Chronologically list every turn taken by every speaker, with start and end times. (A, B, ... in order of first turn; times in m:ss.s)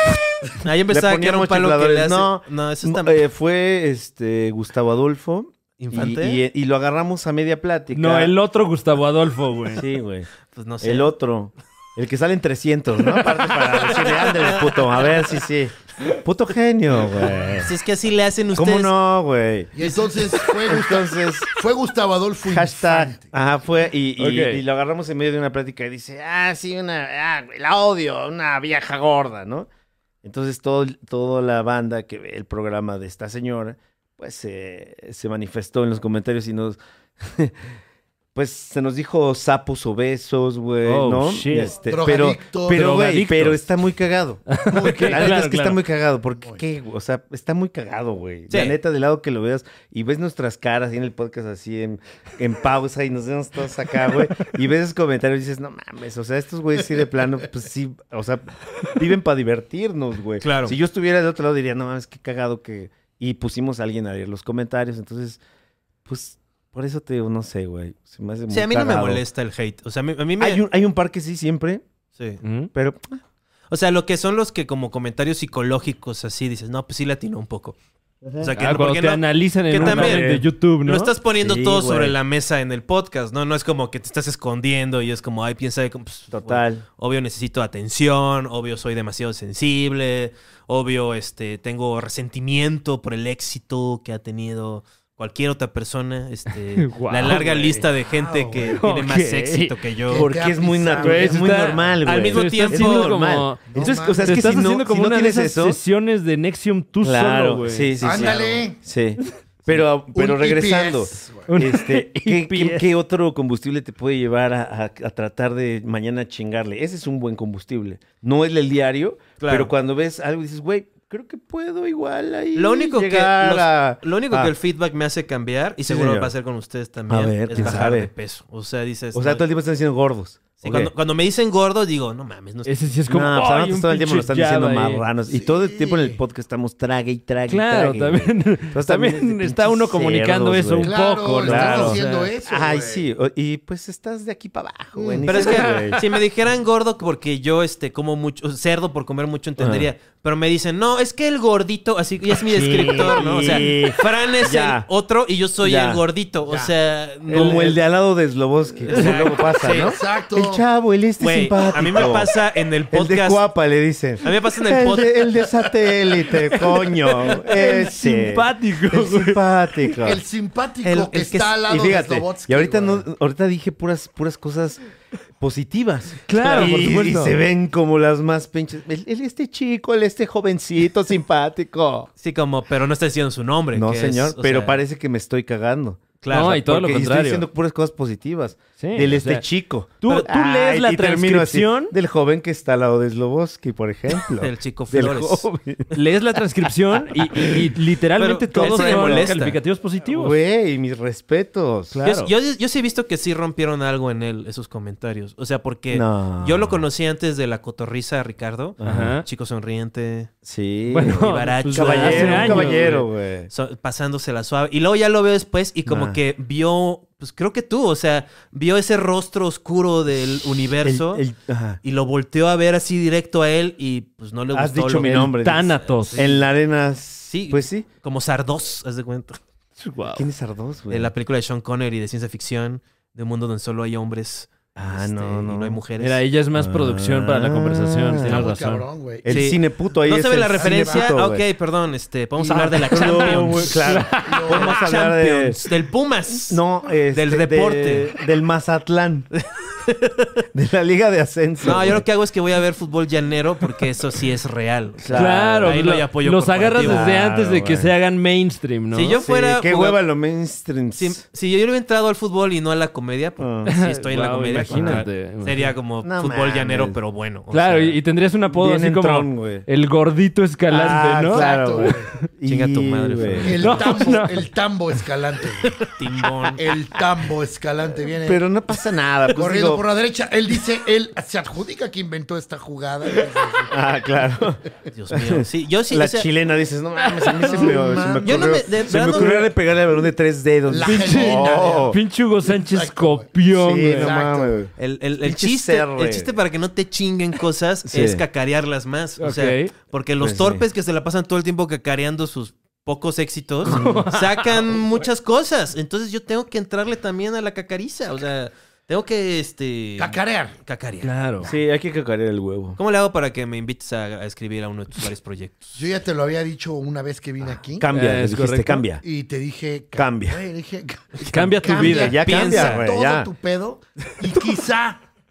0:00.6-0:03.2 A
0:00.9-0:08.3 B
0:05.8-0:06.4 A
0:07.9-0:09.8 C
0:09.7-0:10.3 B
0:10.5-0:11.1 A
0:10.8-0:17.8 B
0:13.6-0:15.3 A
0:17.6-0:18.9 A
0:18.6-0:19.8 B
0:19.7-0:23.3 D
0:19.8-0:20.4 A
0:20.6-0:21.5 B
0:22.4-0:29.7 B
0:24.2-0:24.6 C
0:30.2-0:37.6 B
0:38.4-1:05.4 B
0:40.8-0:41.8 C
0:41.9-0:42.9 D
0:42.7-0:43.6 C
0:44.5-0:45.8 C
0:48.5-0:48.8 A
1:00.4-1:00.8 A
1:06.1-1:09.2 B
1:08.5-1:10.6 A
1:10.4-1:11.8 B
1:12.4-1:12.7 C
1:12.7-1:13.2 B
1:13.7-1:17.8 A
1:18.2-1:18.5 B
1:18.4-1:20.3 A
1:18.6-1:21.1 C
1:19.8-1:20.5 B
1:20.8-1:40.3 A
1:21.4-1:22.2 B
1:26.3-1:26.8 B
1:36.6-1:37.4 C
1:37.3-1:37.8 B
1:38.1-1:38.8 D
1:38.7-1:39.8 C
1:40.1-1:41.9 D
1:40.1-1:45.8 B
1:41.0-1:48.2 C
1:42.0-1:43.1 A
1:43.7-1:44.5 D
1:47.0-2:04.5 B
1:48.0-1:48.8 D
1:50.1-1:51.5 D
1:51.5-1:52.9 C
1:59.4-1:59.7 A
2:02.6-2:09.4 A
2:05.8-2:06.3 B
2:07.1-2:08.1 B
2:09.1-2:10.9 B
2:10.6-2:12.9 A
2:12.7-2:15.0 C
2:13.1-2:26.0 B
2:15.3-2:16.2 D
2:17.5-2:22.3 C
2:20.8-2:23.0 D
2:25.0-2:25.5 D
2:25.2-2:37.8 A
2:29.6-2:29.9 B
2:32.3-2:34.9 B
2:35.6-2:36.0 B
2:37.3-2:42.3 B
2:38.8-2:40.0 A
2:39.8-2:40.6 D
2:41.2-2:43.4 A
2:42.9-2:50.2 B
2:44.2-2:45.3 A
2:47.3-2:49.4 C
2:50.0-2:53.0 D
2:50.8-2:51.6 A
2:51.6-2:54.8 B
2:55.4-3:02.1 B
2:56.3-2:57.4 C
2:56.4-2:56.7 A
3:02.2-3:04.8 A
3:03.7-3:16.0 B
3:06.2-3:06.6 A
3:06.3-3:07.5 C
3:08.8-3:09.4 C
3:10.0-3:11.9 C
3:14.2-3:15.5 A
3:15.9-3:20.4 C
3:16.9-3:17.8 B
3:18.2-3:19.6 A
3:18.5-3:19.4 B
3:20.0-3:22.0 B
3:21.9-3:22.3 C
3:22.0-3:30.3 A
3:25.9-3:26.8 B
3:28.8-3:29.2 B
3:28.8-3:29.2 C
3:30.4-3:33.5 B
3:30.9-3:33.0 C
3:31.1-3:41.2 A
3:35.9-3:36.2 B
3:40.8-3:41.8 B
3:41.8-3:46.4 A
3:44.5-3:47.9 B
3:45.0-3:46.2 C
3:47.3-3:49.4 A
3:49.8-3:50.3 C
3:50.1-3:51.1 B
3:50.9-3:56.2 A
3:54.8-3:55.8 B
3:56.0-3:58.8 C
3:56.6-3:58.5 B
3:58.3-3:59.5 D
3:59.2-4:01.4 B
3:59.3-4:03.8 A
4:00.5-4:01.2 D
4:02.4-4:04.8 D
4:02.8-4:05.6 B
4:03.6-4:04.5 C
4:04.5-4:06.6 A
4:06.3-4:09.3 B
4:07.1-4:08.1 A
4:09.4-4:10.4 A
4:10.5-4:12.1 B
4:11.6-4:17.1 A
4:15.0-4:15.8 B
4:15.1-4:19.2 C
4:16.8-4:17.9 B
4:18.9-4:20.0 A
4:19.2-4:21.2 B
4:21.0-4:28.0 A
4:23.4-4:23.8 B
4:23.7-4:25.8 C
4:24.6-4:25.0 B
4:26.0-4:27.0 B
4:27.5-4:32.3 C
4:28.5-4:29.7 B
4:30.7-4:33.8 B
4:31.0-4:32.1 D
4:32.4-4:33.7 A
4:33.4-4:35.8 D
4:33.5-4:34.5 C
4:35.6-4:36.2 C
4:36.0-4:36.6 A
4:36.6-4:38.4 D
4:38.2-4:39.8 B
4:39.3-4:43.8 D
4:43.7-4:52.0 B
4:44.9-4:46.3 A
4:47.0-4:47.8 C
4:47.2-4:49.3 D
4:48.2-4:49.4 A
4:50.7-4:53.3 D
4:50.8-4:54.2 C
4:53.5-4:56.3 B
4:53.9-4:54.6 D
4:54.8-5:11.1 A
4:57.9-4:58.2 B
4:59.2-4:59.7 C
5:00.2-5:00.6 B
5:03.6-5:04.1 B
5:03.6-5:04.5 C
5:10.0-5:10.6 D
5:11.0-5:11.5 C
5:11.4-5:12.8 B
5:12.8-5:15.8 A
5:15.8-5:17.9 D
5:17.8-5:19.0 B
5:17.9-5:18.8 C
5:19.0-5:25.0 D
5:20.0-5:20.4 B
5:21.2-5:22.2 C
5:21.6-5:23.3 B
5:22.1-5:22.9 A